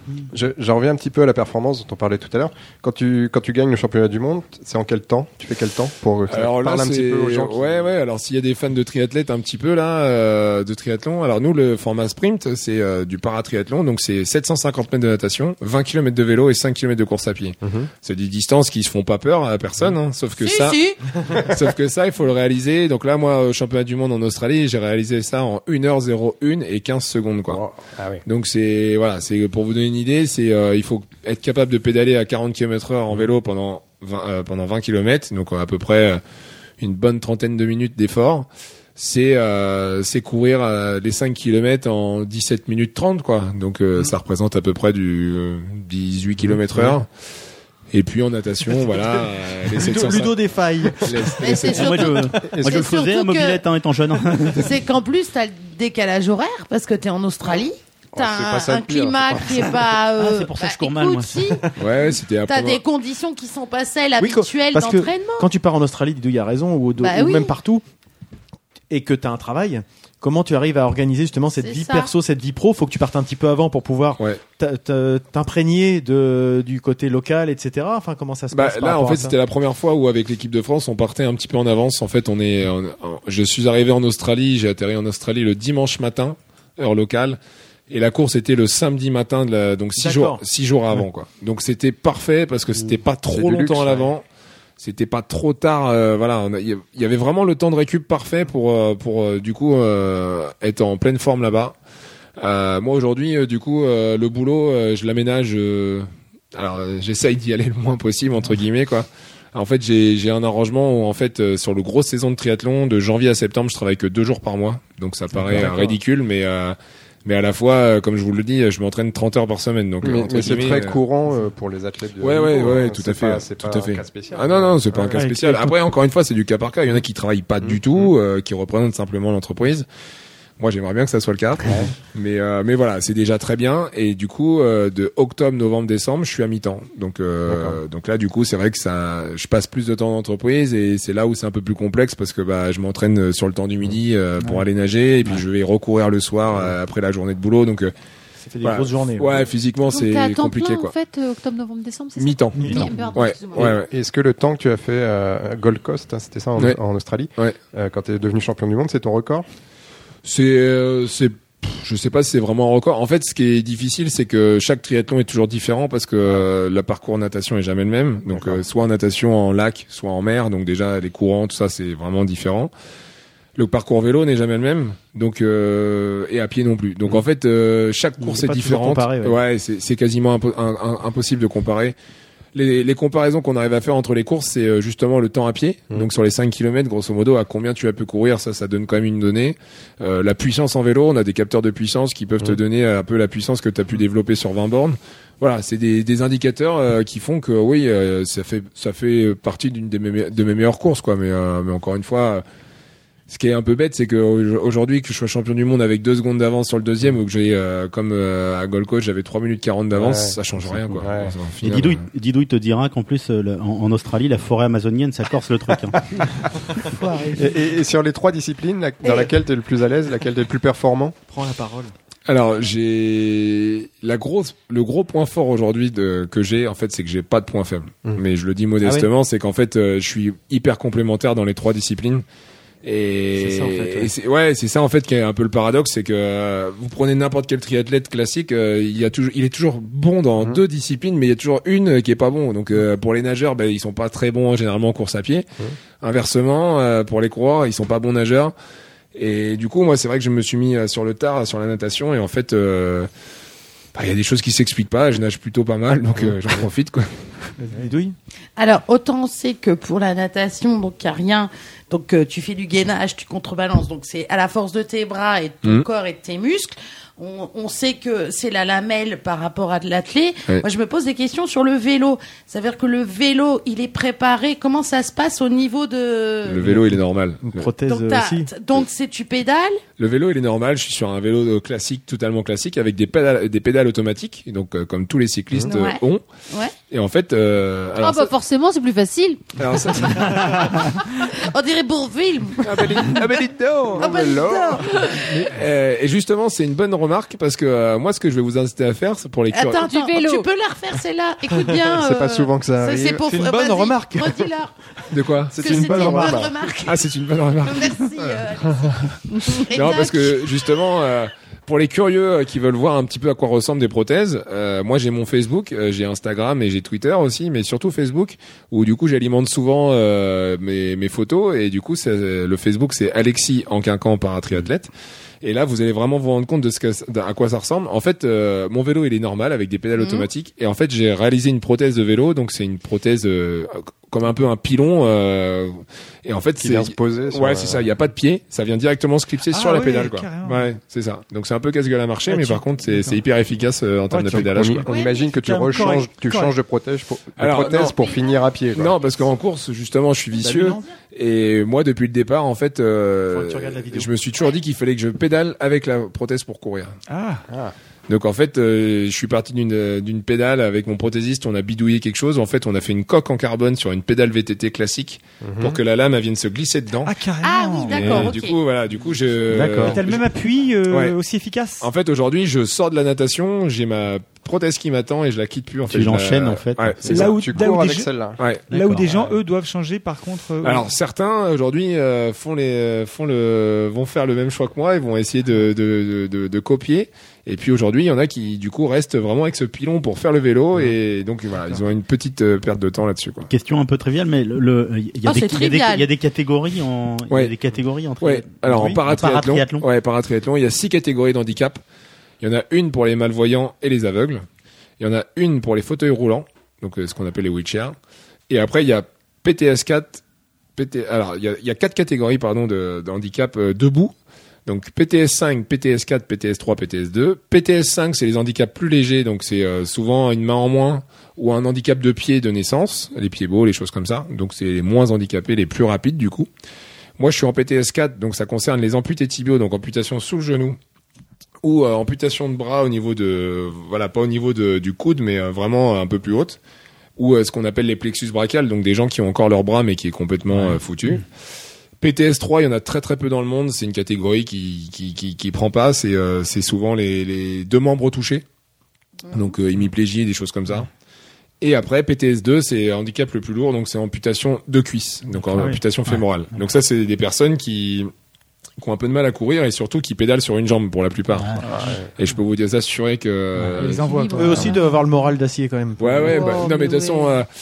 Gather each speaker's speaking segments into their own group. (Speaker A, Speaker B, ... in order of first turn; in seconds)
Speaker A: 0.3-7.9, 17.6-17.9, 27.5-28.2, 52.4-52.8, 58.1-59.8, 93.2-94.1, 120.0-125.2, 127.6-128.1, 131.6-132.0, 137.4-137.8, 153.5-159.4, 168.3-168.6, 209.9-211.3, 217.3-221.2, 293.9-294.8, 301.8-303.4, 305.5-306.6, 336.6-337.9, 344.3-349.0, 357.5-357.7, 365.4-365.8, 369.6-369.9, 377.0-378.4, 461.6-462.1
Speaker B: 6.3-20.8, 21.4-27.6, 28.2-36.2, 36.8-47.1, 47.9-52.1, 61.8-62.8, 78.5-87.4, 87.9-94.2, 94.8-101.8, 102.4-121.0, 122.2-129.9, 130.6-147.9, 148.6-150.9, 152.2-153.9, 160.2-172.7, 173.6-181.9, 182.5-202.4, 203.3-212.1, 222.3-232.2, 232.8-245.5, 246.0-248.5, 249.1-253.1, 253.9-257.1, 276.4-277.7, 280.0-286.2, 286.9-288.3, 289.6-290.7, 292.6-299.9, 305.1-305.6, 306.8-308.4, 309.7-324.9, 325.4-344.9, 347.4-348.0, 348.7-356.9, 358.1-367.1, 367.9-370.2, 370.9-371.1, 371.8-377.4, 378.4-378.6, 380.6-393.5, 398.2-401.8, 402.4-404.4, 405.0-407.9, 408.5-410.2, 410.8-414.1, 414.6-426.5, 427.2-430.8, 431.6-436.6, 437.2-441.2, 442.0-448.4, 449.3-450.9, 451.6-458.1, 458.8-464.1, 466.0-467.5
Speaker C: 20.4-21.0, 51.4-53.6, 54.5-65.5, 67.0-67.5, 71.6-72.1, 258.6-276.7, 277.9-279.8, 285.6-286.7, 291.0-293.4, 294.0-295.4, 299.5-304.7, 305.5-307.1, 307.6-310.6, 329.9-330.3, 344.9-345.3, 347.9-348.4, 367.4-368.6, 395.2-396.1
Speaker D: 48.7-52.5, 64.2-67.8, 68.9-79.3, 90.0-90.4, 148.4-149.4, 152.6-152.9, 178.2-179.4, 221.3-221.9, 228.8-229.1, 233.3-234.1, 257.6-258.1, 276.6-278.5, 303.2-304.5, 305.6-306.4, 350.4-350.8, 353.3-354.1, 398.7-399.0, 464.3-466.7
Speaker E: 51.7-54.7, 60.1-61.6, 211.6-216.3, 375.9-377.2, 378.7-379.1, 393.5-399.8, 461.4-461.6
Speaker F: 125.1-125.8, 152.5-152.9, 217.0-217.4, 339.5-340.7, 342.3-343.2, 344.1-344.5, 345.4-346.5, 357.1-357.4, 367.0-368.3, 369.8-371.9, 377.1-378.1, 378.7-380.9, 455.5-455.8, 461.6-461.9, 463.8-464.8
Speaker G: 149.8-153.7, 288.0-290.2, 299.8-300.5, 464.0-464.8, 466.3-467.3